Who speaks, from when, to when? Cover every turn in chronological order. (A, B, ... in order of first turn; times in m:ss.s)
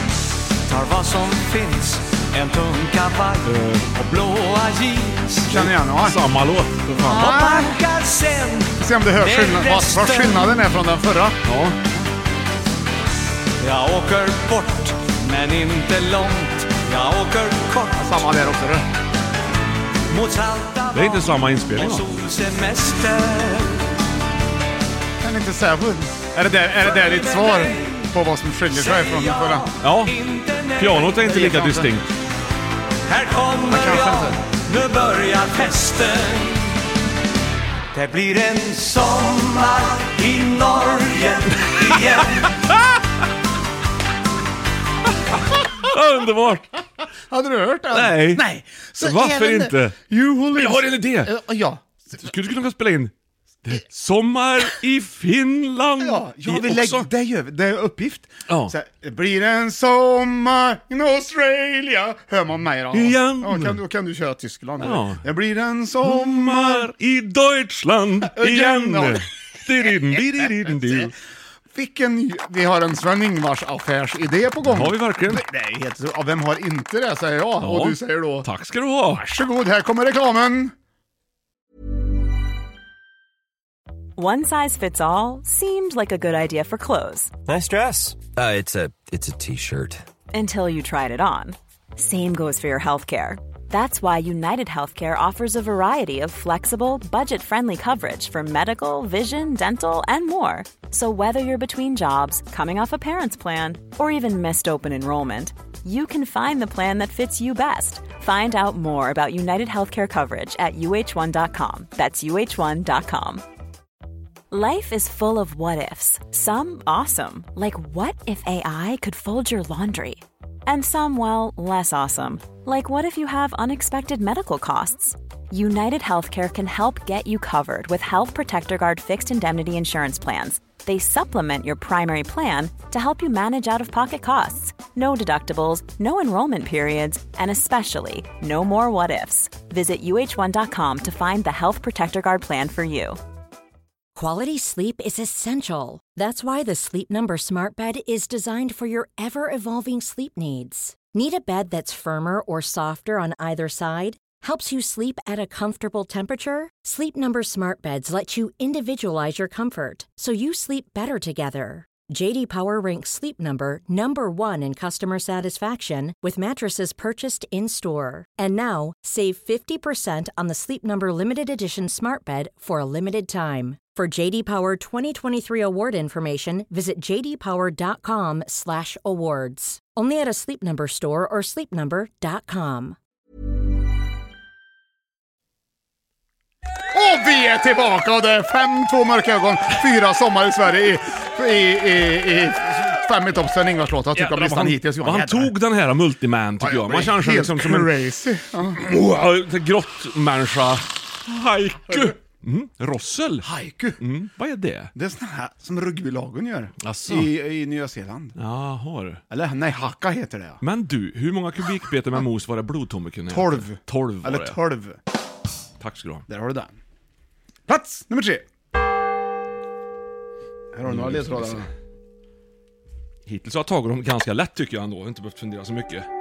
0:00.6-0:05.5 A
0:03.4-0:03.8 B
0:05.5-0:06.2 C
0:05.5-0:07.2 B
0:07.0-0:07.8 C
0:07.0-0:10.6 A
0:08.8-0:11.4 C
0:11.4-0:11.8 B
0:13.6-0:18.4 A
0:18.0-0:18.8 C
0:20.1-0:23.9 A
0:20.9-0:22.1 B
0:25.2-0:29.7 C
0:26.9-0:28.0 A
0:28.7-0:31.2 A
0:29.8-0:30.1 B
0:30.8-0:32.1 B
0:31.2-0:31.9 C
0:33.1-0:36.8 A
0:33.7-0:34.4 C
0:37.9-0:42.5 A
0:41.6-0:41.9 B
0:45.8-0:46.7 B
0:47.3-0:52.1 C
0:47.9-0:48.4 B
0:49.0-0:50.0 B
0:50.5-0:51.4 B
0:52.2-0:53.1 B
0:53.6-0:57.1 B
0:56.0-1:06.9 C
0:58.5-0:58.7 B
1:02.9-1:03.8 B
1:04.8-1:05.2 B
1:06.0-1:11.1 B
1:08.3-1:09.2 C
1:10.2-1:11.1 C
1:11.7-1:18.5 C
1:14.6-1:15.4 B
1:17.6-1:19.3 B
1:19.2-1:20.7 C
1:24.2-1:27.3 D
1:27.4-1:30.0 E
1:30.3-1:53.4 D
1:54.5-2:23.2 D
2:24.2-3:03.0 F
3:06.9-3:15.5 C
3:14.1-3:17.9 B
3:16.6-3:18.8 C
3:18.8-3:24.9 B
3:23.4-3:24.0 C
3:25.0-3:28.4 C
3:26.8-3:27.3 B
3:28.4-3:29.2 B
3:29.3-3:30.6 C
3:30.6-3:34.6 B
3:33.3-3:35.0 C
3:35.8-3:36.3 B
3:36.3-3:36.8 C
3:37.7-3:38.4 C
3:40.7-3:41.7 C
3:40.9-3:41.7 B
3:43.3-3:46.1 B